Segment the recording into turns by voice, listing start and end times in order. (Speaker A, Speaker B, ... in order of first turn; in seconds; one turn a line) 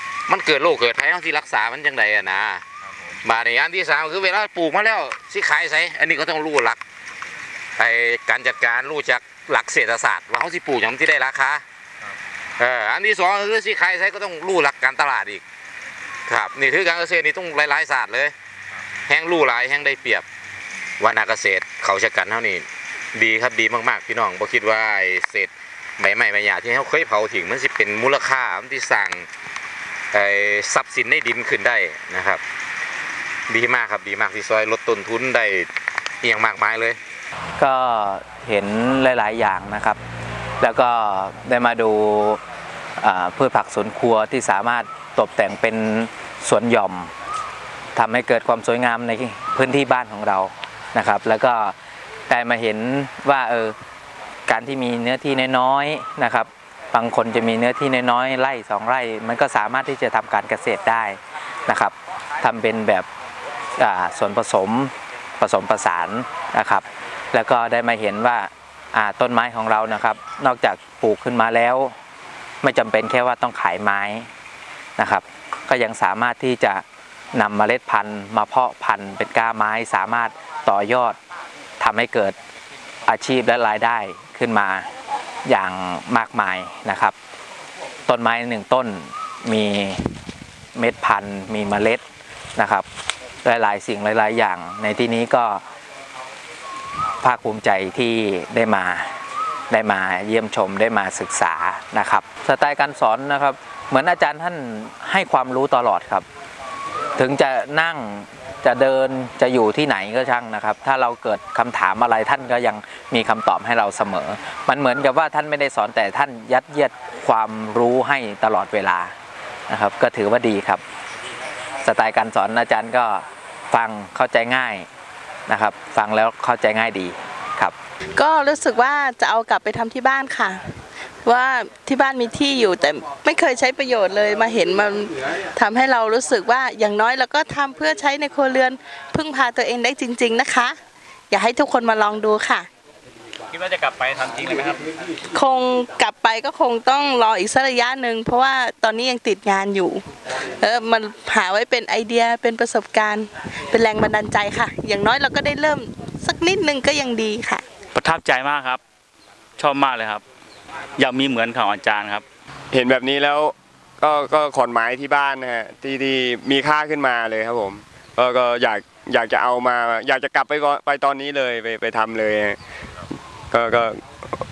Speaker A: 0.3-2.6
Speaker A: 3.2-6.8
Speaker A: 7.8-11.6
Speaker A: 12.6-15.4
Speaker A: 16.3-18.3
Speaker A: 19.1-20.2
Speaker A: 21.0-29.3
Speaker A: 30.1-32.4
Speaker A: 33.5-35.7
Speaker A: 36.2-37.0
Speaker B: 37.6-40.0
Speaker B: 40.6-42.4
Speaker B: 43.0-47.1
Speaker B: 48.0-51.7
Speaker B: 52.3-53.7
Speaker B: 54.5-63.1
Speaker B: 63.8-71.9
Speaker B: 72.6-74.3
Speaker B: 75.0-81.2
Speaker B: 81.8-82.3
Speaker B: 83.1-84.8
Speaker B: 85.4-87.1
Speaker B: 88.1-90.1
Speaker B: 90.7-92.0
Speaker B: 92.5-92.8
Speaker B: 93.4-95.6
Speaker B: 97.2-99.1
Speaker B: 99.7-106.2
Speaker B: 107.2-119.1
Speaker B: 119.7-120.8
Speaker B: 121.8-124.9
Speaker B: 125.5-127.7
Speaker C: 128.2-130.6
Speaker C: 131.2-140.8
Speaker C: 141.3-142.7
Speaker D: 143.5-144.8
Speaker C: 145.3-150.0
Speaker C: 150.6-157.6
Speaker D: 157.9-158.8
Speaker D: 159.6-160.2
Speaker D: 161.0-162.2
Speaker E: 162.7-172.6
Speaker E: 173.5-174.0